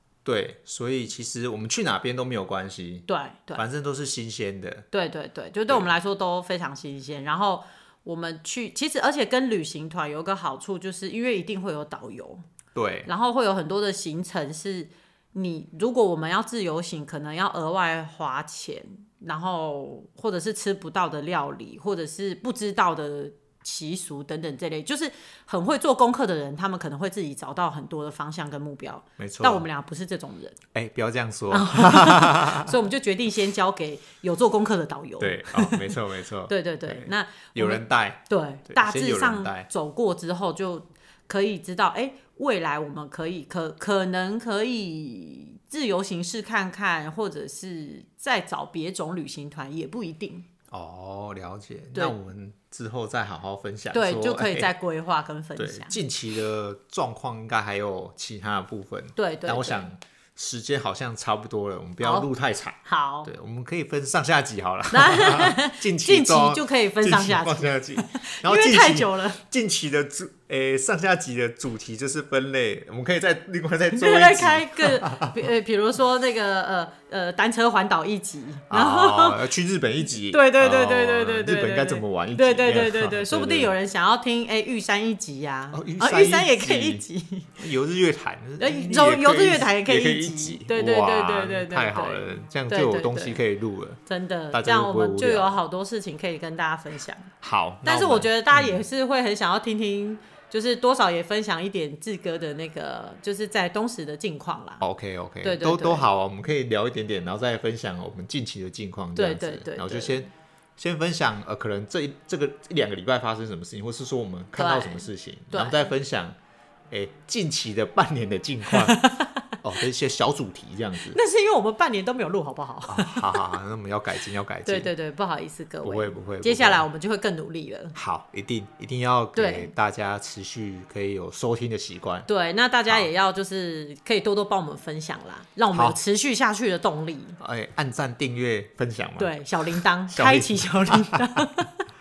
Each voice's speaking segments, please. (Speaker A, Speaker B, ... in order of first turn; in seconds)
Speaker A: 0.2-4.9, 12.7-13.1, 29.2-29.6, 30.7-32.7, 35.2-39.7, 50.7-54.7, 55.5-75.4, 78.7-83.7, 85.7-87.0, 87.6-94.0, 94.5-95.5, 97.4-98.8, 104.8-116.4, 116.9-119.1, 119.6-121.2, 122.9-124.9, 125.8-126.9, 127.9-132.3, 135.7-136.0, 137.4-141.5
Speaker B: 3.1-3.6, 4.9-12.4, 13.1-30.6, 31.5-36.0, 36.5-50.5, 53.9-56.0, 59.1-59.9, 62.0-62.3, 62.9-63.3, 64.9-69.4, 73.9-79.4, 80.2-87.6, 88.6-93.4, 94.1-97.3, 97.8-104.8, 105.4-106.1, 109.1-110.2, 114.5-115.9, 118.7-119.4, 121.1-123.4, 124.7-127.9, 129.3-129.7, 132.3-137.4, 139.2-141.8